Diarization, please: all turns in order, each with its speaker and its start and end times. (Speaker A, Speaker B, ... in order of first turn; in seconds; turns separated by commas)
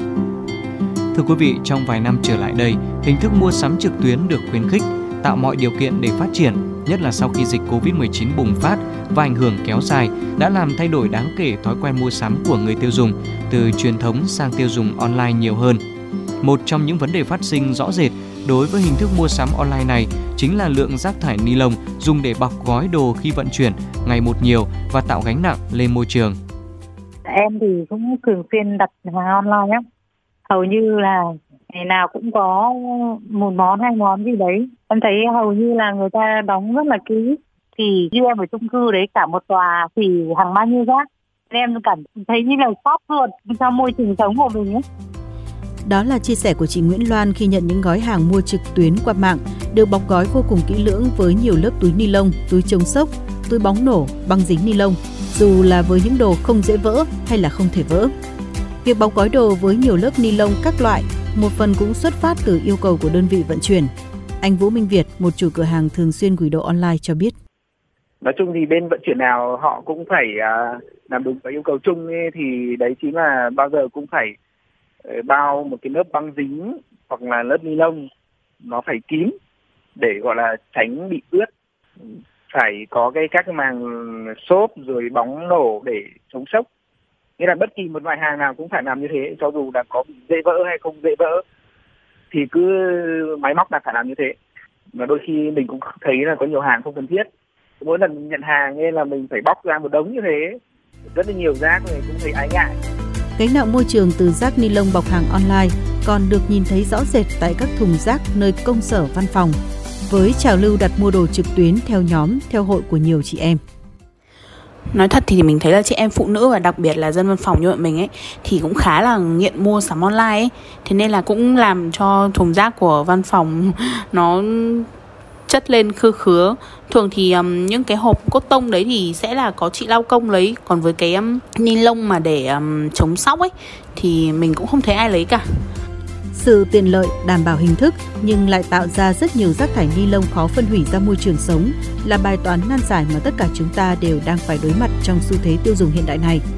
Speaker A: 1.1-15.8, Speaker A: 16.4-26.4, Speaker B: 27.3-29.8, Speaker B: 30.5-44.8, Speaker C: 45.9-58.1, Speaker C: 58.8-67.3, Speaker D: 68.2-74.3, Speaker D: 75.1-78.0, Speaker D: 78.6-79.3, Speaker D: 80.0-81.5, Speaker D: 82.5-86.7, Speaker D: 87.4-91.4, Speaker D: 92.3-94.4, Speaker D: 94.9-97.3, Speaker D: 97.8-100.6, Speaker D: 101.1-102.7, Speaker C: 103.4-109.6, Speaker C: 110.1-113.6, Speaker E: 114.9-124.9, Speaker E: 125.5-135.7, Speaker C: 136.3-146.4